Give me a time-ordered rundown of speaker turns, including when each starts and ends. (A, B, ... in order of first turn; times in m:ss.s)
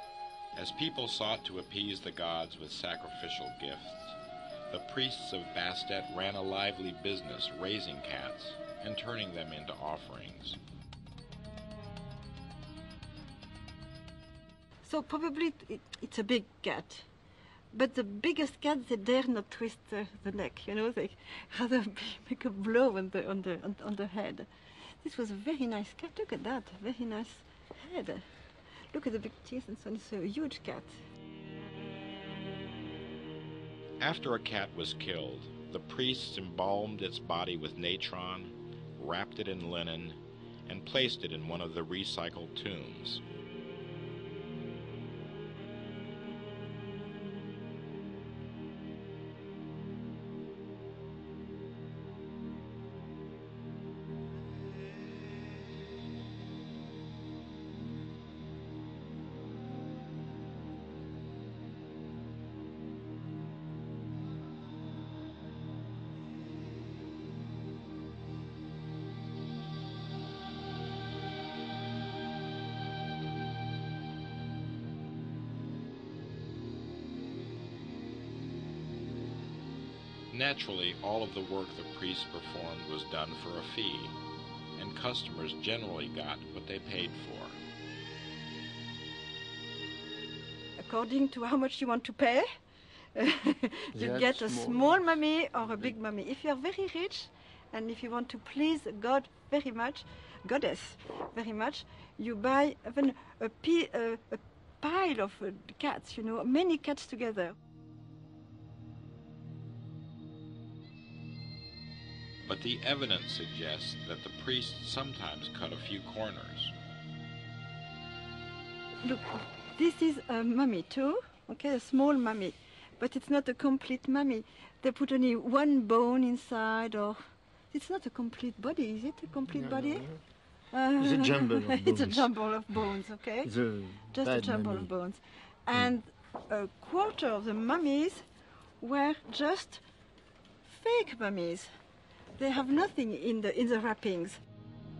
0:00.5-0:04.2 A
0:04.7-0:10.6 A
0:14.8-0:17.0 B
0:17.7-0:24.5 B
0:25.0-0:28.2 B
0:28.9-0:31.0 B
0:34.0-0:43.2 A
1:20.3-1:24.2 A
1:24.8-1:27.6 A
1:30.8-1:32.4 B
1:33.1-1:47.6 B
1:33.9-1:34.9 C
1:52.4-1:56.7 A
1:59.0-2:07.2 B
2:07.7-2:10.1 B
2:09.5-2:10.2 C
2:10.7-2:13.5 B
2:11.0-2:12.3 C
2:13.4-2:14.9 C
2:14.1-2:18.2 B
2:18.8-2:19.8 B
2:20.6-2:21.7 B
2:22.4-2:24.4 B